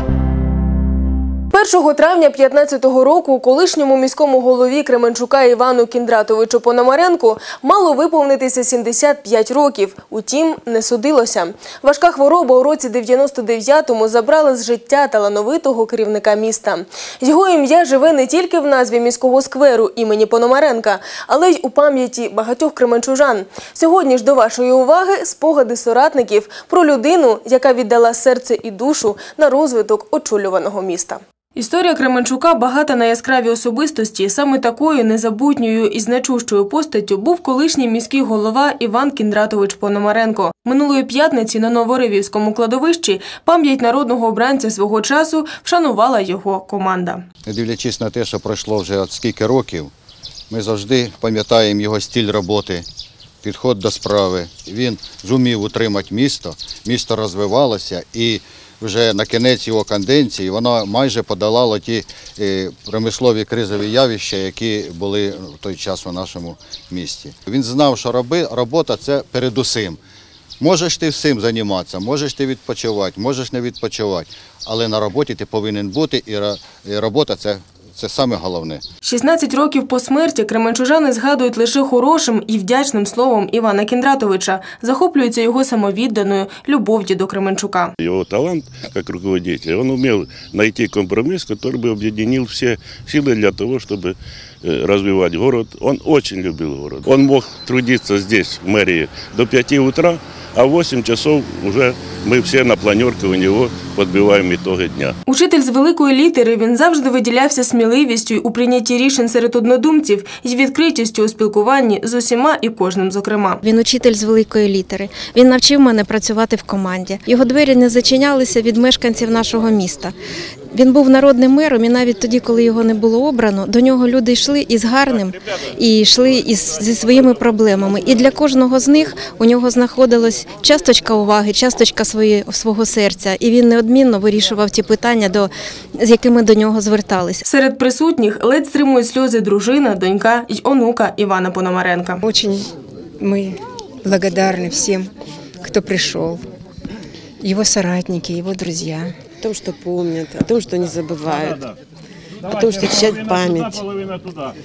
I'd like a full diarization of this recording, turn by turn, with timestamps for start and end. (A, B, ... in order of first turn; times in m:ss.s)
0:01.5-0:47.2 A
0:47.4-0:49.9 B
0:50.5-0:52.8 B
0:53.4-1:10.0 B
1:10.6-1:18.8 B
1:19.0-1:27.9 A
1:28.0-1:45.1 C
1:45.3-1:53.6 A
1:53.6-2:00.1 D
2:00.7-2:17.4 D
2:17.4-2:22.2 A
2:24.1-2:25.0 E
2:25.6-2:26.4 E
2:27.4-2:29.1 E
2:29.4-2:31.6 F
2:32.5-2:33.8 F